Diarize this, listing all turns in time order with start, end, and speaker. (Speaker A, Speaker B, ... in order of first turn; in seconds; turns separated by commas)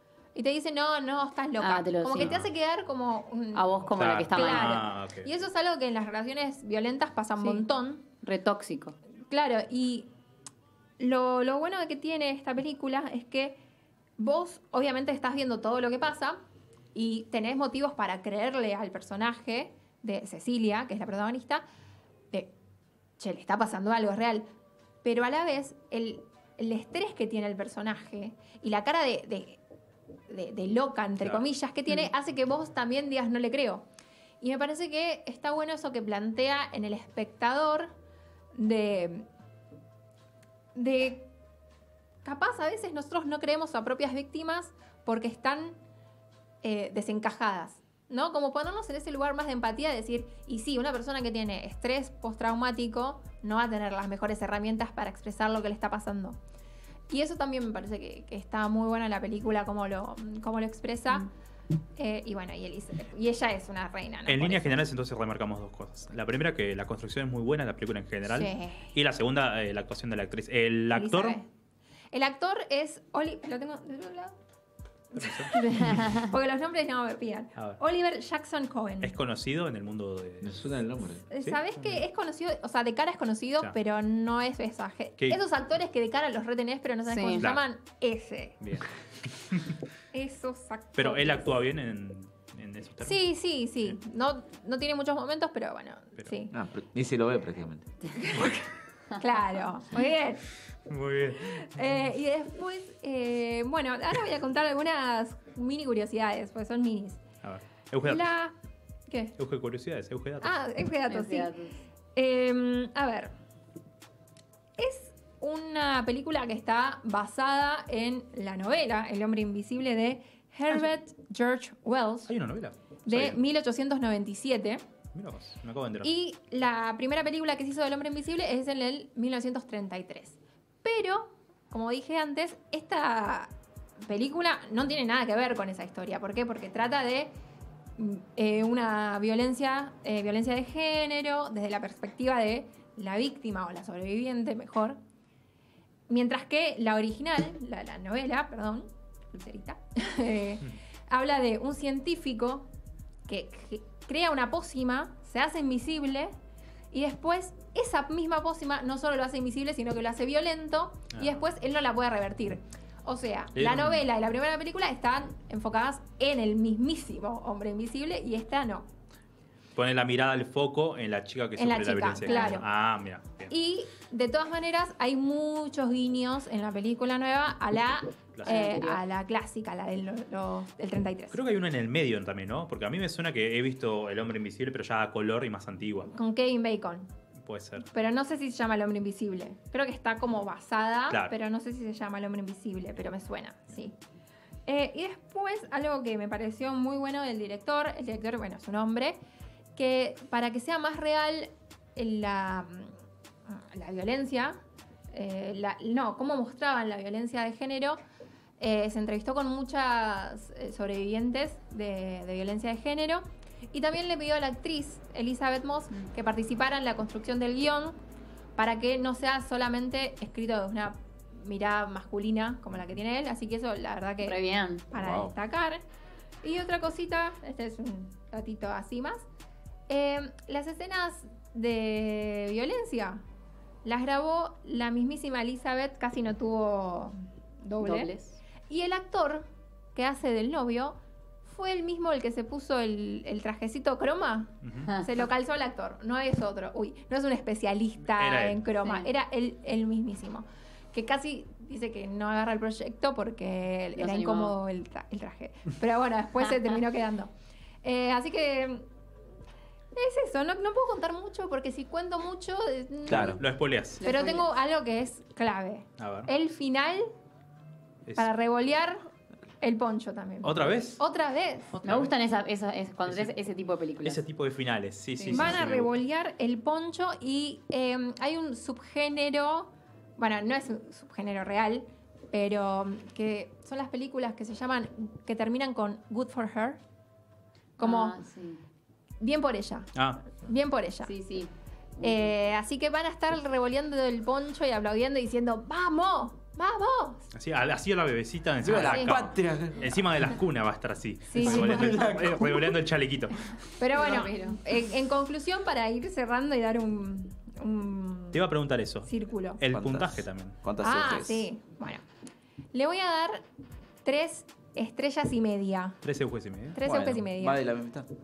Speaker A: 0.3-8.1, Speaker B: 1.6-2.4, Speaker C: 2.2-2.5, Speaker B: 3.5-4.8, Speaker C: 3.9-5.3, Speaker B: 7.4-7.7, Speaker B: 8.2-8.9, Speaker A: 9.3-10.1, Speaker A: 11.0-13.6, Speaker A: 14.2-16.4, Speaker A: 16.9-21.6, Speaker A: 23.2-24.5, Speaker A: 25.0-29.6, Speaker A: 30.3-33.9, Speaker A: 34.4-37.9, Speaker A: 38.5-39.3, Speaker A: 40.8-41.3, Speaker A: 42.2-45.8, Speaker A: 46.6-56.4, Speaker A: 57.1-61.3, Speaker A: 62.0-64.8, Speaker C: 64.3-71.4, Speaker A: 68.3-69.0, Speaker A: 70.9-71.5, Speaker A: 72.1-74.4, Speaker A: 75.1-79.2, Speaker C: 75.2-75.9, Speaker B: 75.8-76.2, Speaker C: 79.0-80.7, Speaker D: 80.4-81.2, Speaker A: 81.3-88.6, Speaker C: 81.4-82.0, Speaker B: 87.1-87.5, Speaker C: 88.6-89.8, Speaker A: 90.1-91.5, Speaker C: 91.0-93.2, Speaker A: 93.0-96.5, Speaker D: 96.5-97.9, Speaker A: 98.1-100.5, Speaker C: 100.9-101.8, Speaker A: 101.4-107.2, Speaker C: 107.4-108.3, Speaker A: 108.0-108.5, Speaker A: 109.1-109.3, Speaker C: 109.4-110.5, Speaker A: 110.4-111.5, Speaker B: 111.1-111.8, Speaker A: 112.1-113.3, Speaker A: 114.8-122.3, Speaker C: 122.3-123.4, Speaker A: 123.0-124.8, Speaker C: 125.1-126.1, Speaker A: 126.0-137.3, Speaker A: 138.0-145.0, Speaker A: 146.1-152.7, Speaker A: 153.3-156.3, Speaker A: 156.9-168.9, Speaker C: 161.1-161.4, Speaker C: 163.6-164.0, Speaker C: 169.8-173.5, Speaker A: 171.6-172.7, Speaker B: 172.3-172.6, Speaker A: 173.5-181.4, Speaker C: 178.4-178.7, Speaker B: 178.4-179.0, Speaker C: 181.3-186.1, Speaker A: 186.1-187.1, Speaker C: 187.4-187.9, Speaker A: 187.9-193.9, Speaker C: 191.1-191.3, Speaker A: 194.7-199.2, Speaker A: 199.8-203.0, Speaker A: 203.5-204.6, Speaker A: 205.1-208.0, Speaker A: 208.6-218.0, Speaker A: 218.6-224.4, Speaker B: 224.2-224.9, Speaker A: 224.9-225.8, Speaker D: 224.9-225.3, Speaker A: 226.4-229.2, Speaker A: 229.9-233.2, Speaker A: 233.8-238.1, Speaker B: 237.8-238.4, Speaker A: 238.7-257.3, Speaker C: 244.6-244.9, Speaker C: 248.1-248.7, Speaker B: 254.0-254.6, Speaker A: 257.8-258.9, Speaker A: 259.9-263.5, Speaker D: 263.1-263.4, Speaker C: 263.1-264.0, Speaker B: 264.0-264.5, Speaker A: 264.0-267.1, Speaker C: 266.0-266.3, Speaker A: 268.2-269.1, Speaker A: 269.6-271.8, Speaker C: 270.4-271.0, Speaker C: 271.7-272.1, Speaker B: 271.9-274.2, Speaker C: 273.1-273.4, Speaker C: 274.0-275.9, Speaker B: 275.2-275.7, Speaker A: 275.3-286.8, Speaker A: 287.8-288.2, Speaker B: 287.8-288.6, Speaker A: 289.2-291.1, Speaker C: 289.9-290.2, Speaker B: 291.0-291.5, Speaker B: 292.0-292.3, Speaker A: 292.0-297.2, Speaker C: 297.3-303.6, Speaker D: 298.6-300.0, Speaker A: 298.9-299.2, Speaker A: 301.3-302.1, Speaker D: 301.4-302.6, Speaker B: 301.8-302.3, Speaker A: 303.8-308.5, Speaker B: 303.9-304.6, Speaker C: 308.3-310.6, Speaker A: 309.1-309.6, Speaker D: 309.7-311.5, Speaker A: 310.8-312.0, Speaker A: 312.7-313.4, Speaker A: 314.0-316.0, Speaker C: 316.0-316.8, Speaker A: 316.7-317.6, Speaker D: 316.8-318.1